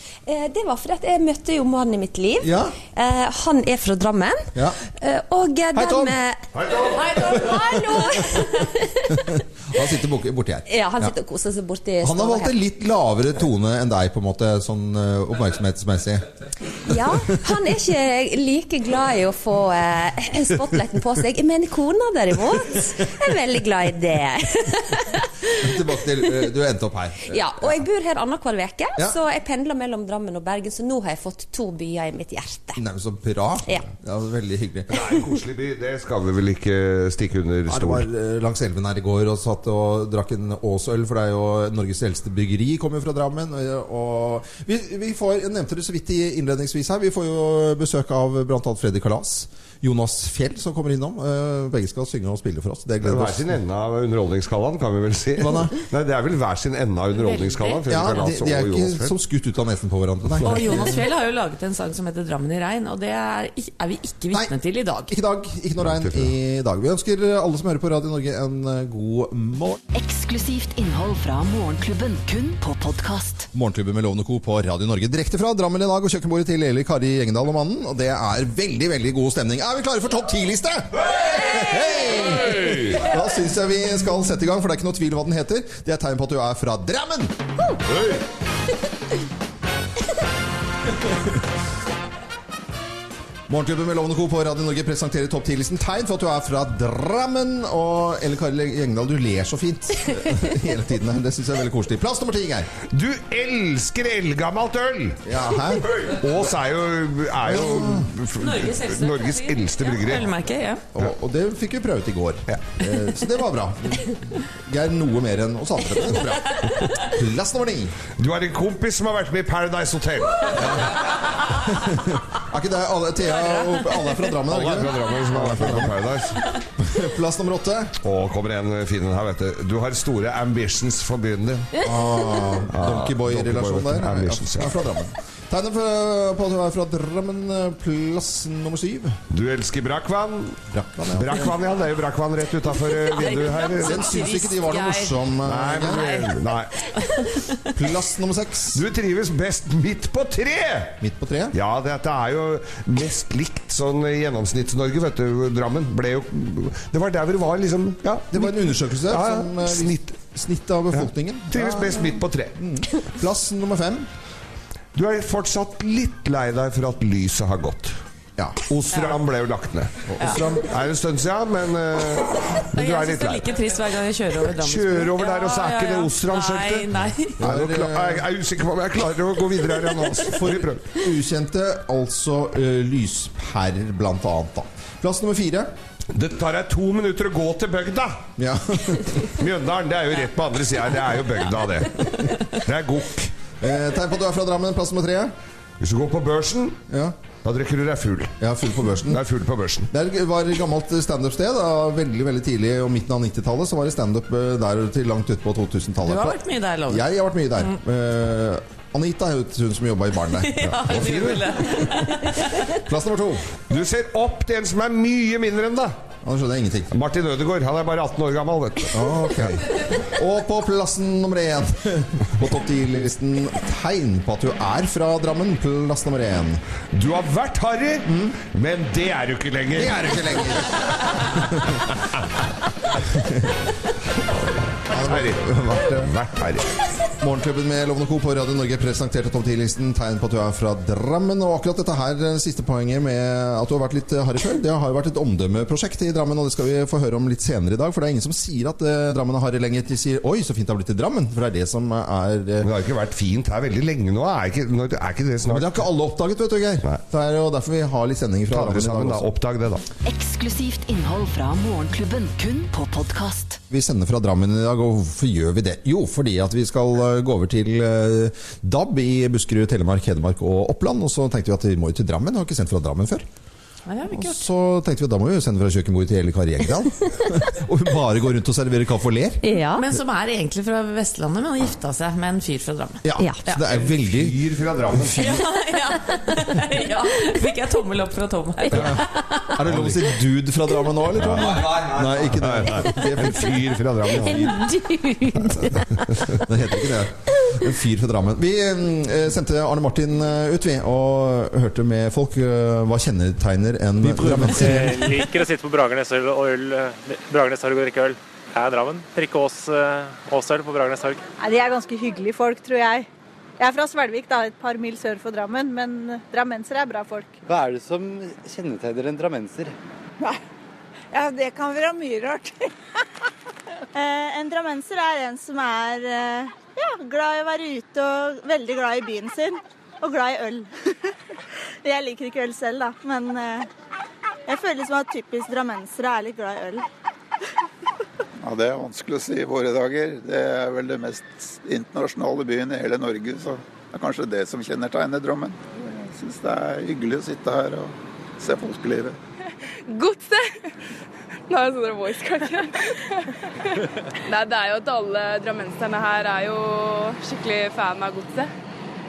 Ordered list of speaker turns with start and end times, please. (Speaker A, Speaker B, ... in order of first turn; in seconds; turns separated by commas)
Speaker A: 0.3-9.4, Speaker B: 2.4-2.8, Speaker B: 5.8-6.2, Speaker C: 6.5-7.0, Speaker B: 9.1-11.1, Speaker A: 10.7-12.6, Speaker B: 12.0-16.3, Speaker A: 16.9-25.7, Speaker B: 25.6-27.8, Speaker A: 27.2-32.8, Speaker B: 32.8-34.9, Speaker C: 34.9-38.1, Speaker B: 37.7-53.5, Speaker C: 53.0-59.1, Speaker B: 55.4-55.8, Speaker D: 57.1-58.2, Speaker B: 57.9-61.0, Speaker D: 60.4-65.1, Speaker B: 65.1-69.8, Speaker C: 65.9-66.3, Speaker E: 69.9-73.5, Speaker B: 73.5-87.3, Speaker C: 82.5-83.0, Speaker C: 87.9-88.2, Speaker B: 93.5-102.7, Speaker C: 102.9-105.2, Speaker B: 105.2-106.1, Speaker C: 105.8-110.3, Speaker B: 107.4-108.1, Speaker D: 108.4-110.8, Speaker B: 111.0-118.0, Speaker C: 118.2-120.9, Speaker B: 120.6-120.9, Speaker B: 121.9-126.0, Speaker C: 124.5-126.4, Speaker B: 126.8-128.0, Speaker C: 128.0-131.8, Speaker B: 131.8-139.2, Speaker C: 132.7-134.8, Speaker C: 139.3-144.3, Speaker B: 140.7-141.5, Speaker D: 143.1-145.2, Speaker B: 143.8-146.2, Speaker C: 145.4-146.8, Speaker D: 145.8-147.7, Speaker B: 147.7-148.8, Speaker C: 148.7-151.0, Speaker B: 151.0-151.6, Speaker C: 151.5-160.1, Speaker B: 158.3-164.1, Speaker C: 161.0-162.6, Speaker C: 164.9-168.0, Speaker C: 168.7-173.5, Speaker B: 170.1-170.7, Speaker D: 172.7-177.4, Speaker C: 174.6-180.9, Speaker B: 177.4-178.3, Speaker B: 180.2-185.7, Speaker C: 186.1-188.2, Speaker B: 188.4-189.2, Speaker C: 189.4-193.3, Speaker B: 193.6-195.3, Speaker C: 195.8-196.8, Speaker B: 196.9-197.2, Speaker C: 197.4-198.3, Speaker B: 198.4-199.2, Speaker C: 199.1-199.9, Speaker B: 199.9-212.2, Speaker D: 206.0-207.1, Speaker D: 210.4-212.7, Speaker B: 212.7-213.5, Speaker C: 213.7-215.9, Speaker B: 216.2-216.9, Speaker C: 216.9-219.6, Speaker B: 218.9-226.6, Speaker C: 226.9-230.5, Speaker B: 228.1-228.4, Speaker B: 229.7-231.8, Speaker C: 231.6-231.9, Speaker B: 233.1-233.6, Speaker B: 234.9-236.1, Speaker C: 234.9-236.7, Speaker B: 237.2-252.7, Speaker C: 252.6-255.8, Speaker B: 255.4-259.3, Speaker C: 258.5-259.8, Speaker E: 260.0-263.6, Speaker B: 263.7-273.3, Speaker D: 273.9-274.4, Speaker B: 274.1-279.4, Speaker A: 279.4-279.9, Speaker D: 279.7-283.7, Speaker B: 283.0-284.4, Speaker A: 283.2-283.4, Speaker C: 283.6-285.4, Speaker B: 284.9-285.4, Speaker D: 285.2-289.5, Speaker B: 288.7-289.0, Speaker C: 288.7-289.0, Speaker B: 289.5-293.6, Speaker C: 289.6-290.0, Speaker C: 291.2-294.7, Speaker A: 294.3-295.6, Speaker B: 296.3-305.2, Speaker F: 304.8-311.2, Speaker G: 311.4-313.1, Speaker G: 313.6-317.4, Speaker H: 317.5-319.7, Speaker G: 321.1-322.7, Speaker G: 323.9-330.7, Speaker G: 331.8-333.7, Speaker G: 334.5-336.9, Speaker I: 338.4-349.2, Speaker J: 349.9-350.6, Speaker J: 351.5-353.2, Speaker J: 354.3-358.5